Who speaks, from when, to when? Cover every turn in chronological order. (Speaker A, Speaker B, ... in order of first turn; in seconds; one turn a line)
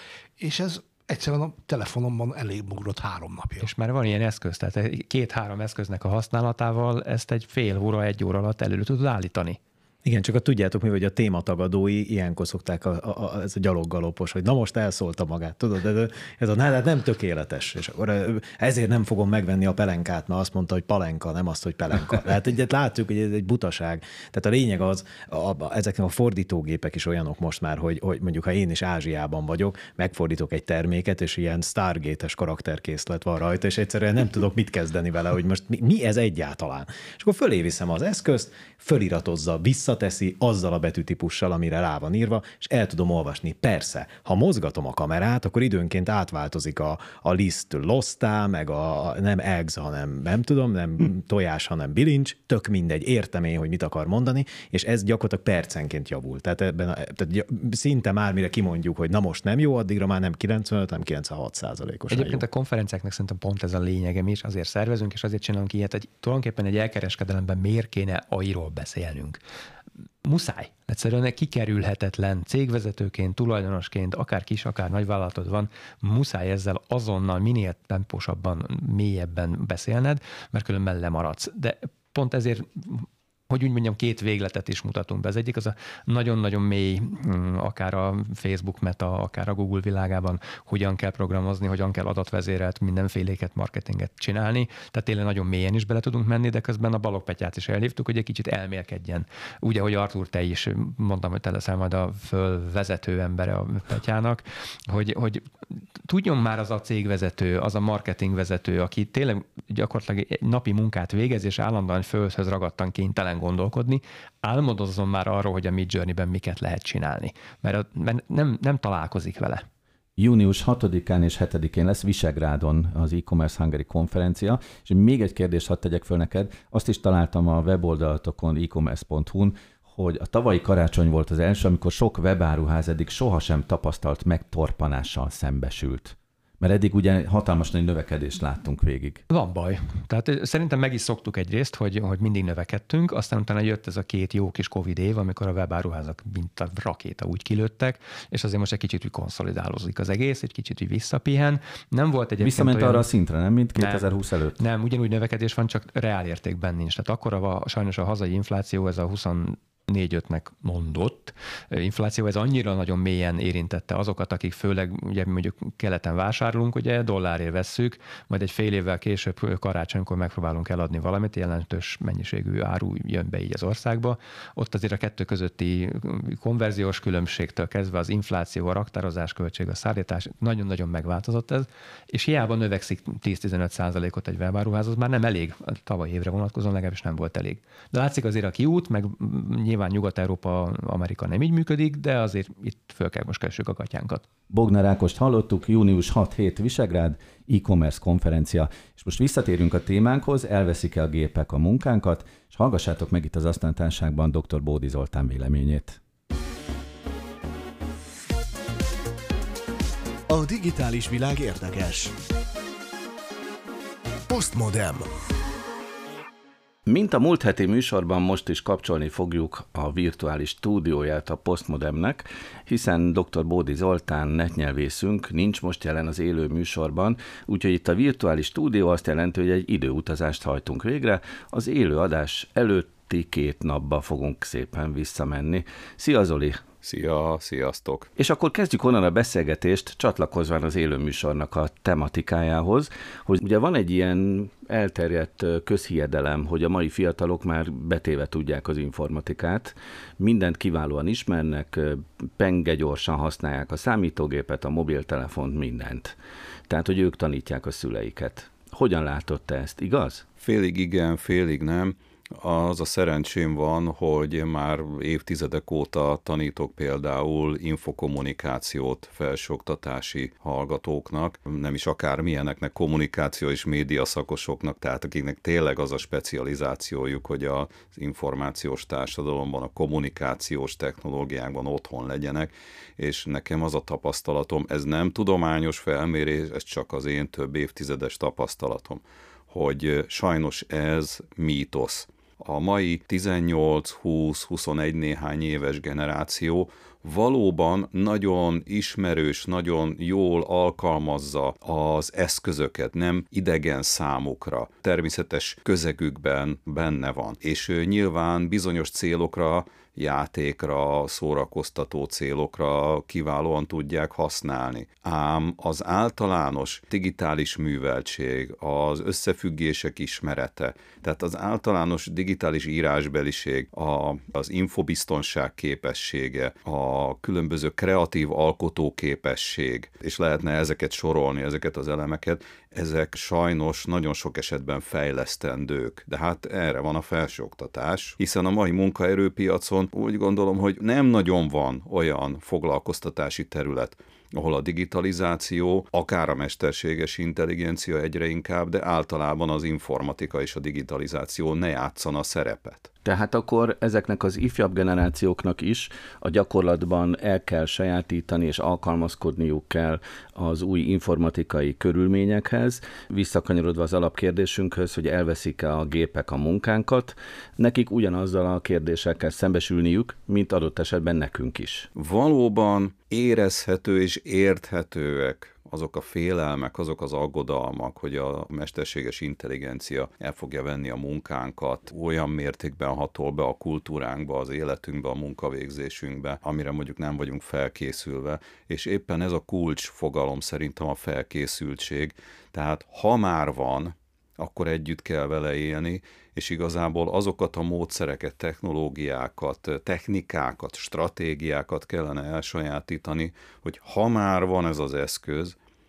Speaker A: 0.4-3.7
Speaker B: 3.6-9.6
Speaker C: 10.1-62.4
Speaker B: 62.1-69.4
Speaker B: 70.2-119.7
Speaker D: 120.2-139.2
Speaker B: 139.3-153.1
Speaker D: 152.4-154.6
Speaker B: 153.8-194.3
Speaker D: 194.5-206.0
Speaker E: 210.3-212.1
Speaker E: 214.3-215.1
Speaker D: 216.9-236.7
Speaker F: 236.8-238.1
Speaker D: 238.2-256.2
Speaker D: 256.7-260.2
Speaker F: 260.4-352.9
Speaker D: 353.0-371.9
Speaker F: 372.0-405.6